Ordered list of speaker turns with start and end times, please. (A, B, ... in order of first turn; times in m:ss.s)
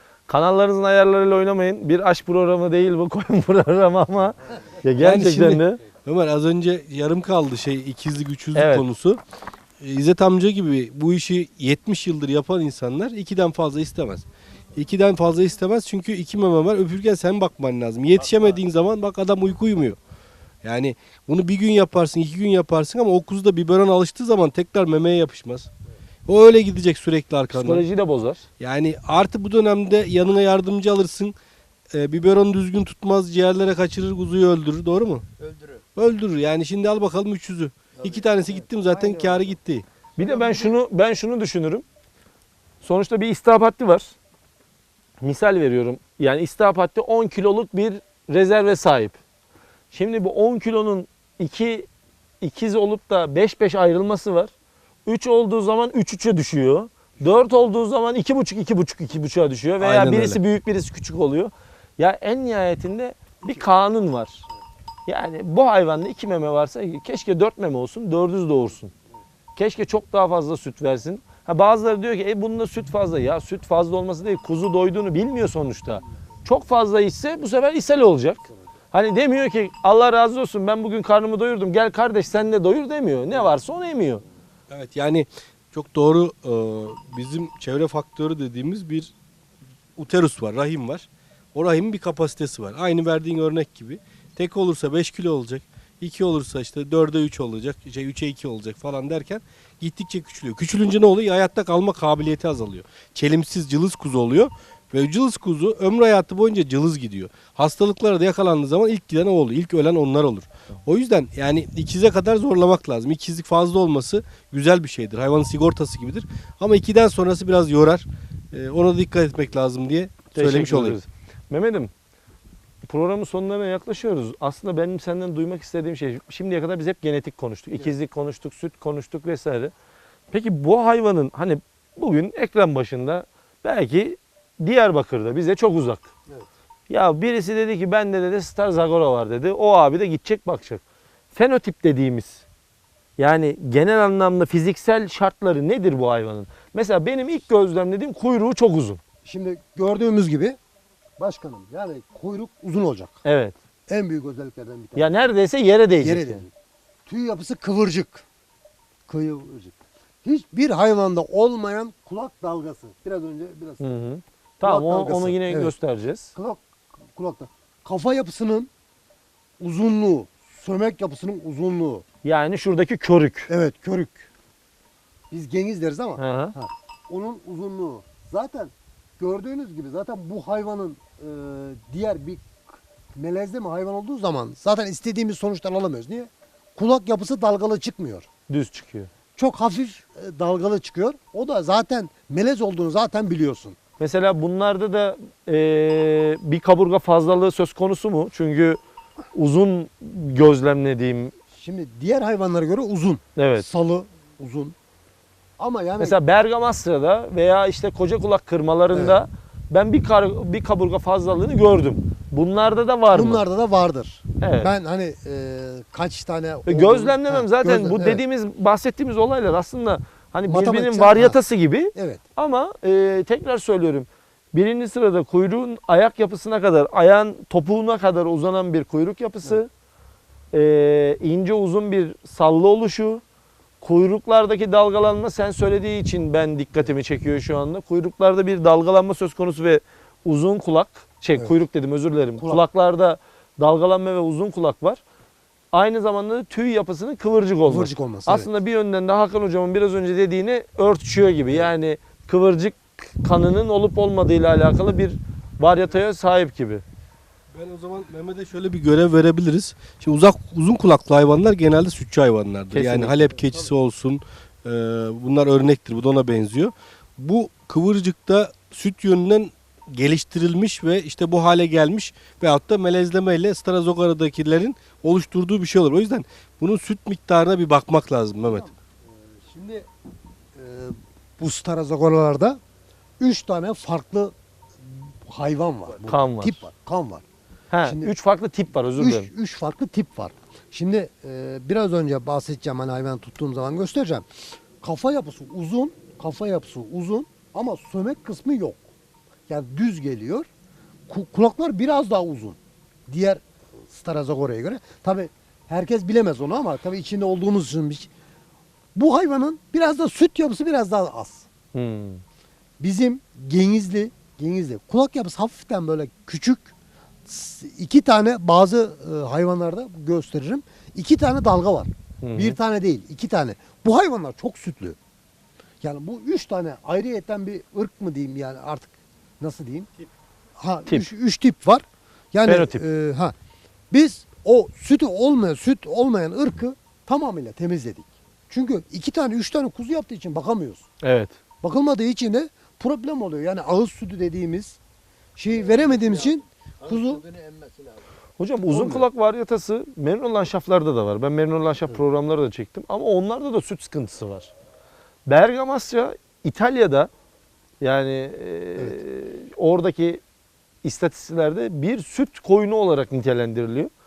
0:00.3-0:05.8 A
0:05.0-0:09.2 B
0:08.6-0:08.8 A
0:09.8-0:20.0 B
0:20.6-0:25.7 B
0:26.2-0:27.8 B
0:27.5-0:28.4 A
0:28.6-0:31.4 B
0:31.9-0:35.2 B
0:35.4-0:35.8 C
0:36.0-0:39.9 B
0:37.9-0:39.6 C
0:40.2-0:41.8 A
0:40.2-0:40.8 C
0:42.8-0:44.1 A
0:45.2-0:49.2 A
0:49.9-0:51.9 A
0:52.4-0:54.5 A
0:55.0-1:04.5 A
0:59.8-1:00.4 B
1:05.1-1:08.9 A
1:09.6-1:24.2 A
1:24.7-1:29.1 B
1:30.0-2:01.0 B
2:00.3-2:01.9 A
2:02.9-2:09.7 A
2:10.3-2:16.1 A
2:16.9-2:20.8 A
2:21.3-2:22.4 A
2:23.2-2:29.0 A
2:29.2-2:30.6 D
2:31.2-2:33.2 D
2:33.2-2:33.6 A
2:33.9-2:35.1 D
2:35.0-2:36.4 A
2:36.0-2:36.5 D
2:37.1-2:38.2 D
2:39.1-2:43.8 D
2:43.8-2:46.3 A
2:44.6-2:45.7 D
2:46.4-2:48.7 D
2:49.6-2:52.0 D
2:52.2-2:53.5 A
2:53.5-2:54.3 D
2:55.3-3:08.3 D
2:56.2-2:56.6 A
3:08.5-3:09.1 A
3:09.4-3:13.8 D
3:14.0-3:18.8 A
3:19.3-3:21.3 A
3:21.5-3:24.8 D
3:23.4-3:23.7 A
3:25.6-3:26.2 D
3:26.0-3:33.4 A
3:28.9-3:29.2 D
3:33.1-3:38.2 D
3:34.4-3:34.7 A
3:36.6-3:49.7 A
3:40.5-3:41.4 D
3:41.9-3:42.2 D
3:50.5-3:53.2 A
3:53.8-4:05.0 A
4:02.4-4:02.6 D
4:05.7-4:16.8 A
4:07.7-4:08.5 D
4:17.5-4:38.7 B
4:22.7-4:23.5 A
4:38.4-4:39.9 D
4:40.6-4:42.6 D
4:43.2-4:47.2 D
4:46.1-4:46.6 A
4:47.7-4:49.3 A
4:47.8-4:48.1 D
4:49.0-4:58.8 D
4:59.5-5:00.5 D
5:01.1-5:08.1 D
5:09.0-5:11.5 D
5:11.7-5:12.2 A
5:12.8-5:16.7 D
5:17.2-5:25.0 D
5:22.2-5:22.6 A
5:25.8-5:29.9 D
5:30.6-5:33.3 D
5:32.4-5:32.8 A
5:33.9-5:40.9 D
5:41.0-5:41.4 A
5:41.6-5:44.8 D
5:45.4-5:47.2 D
5:45.5-5:48.1 C
5:48.4-5:54.5 A
5:48.7-5:49.1 D
5:55.3-5:57.1 A
5:57.8-6:00.2 A
6:00.8-6:03.9 A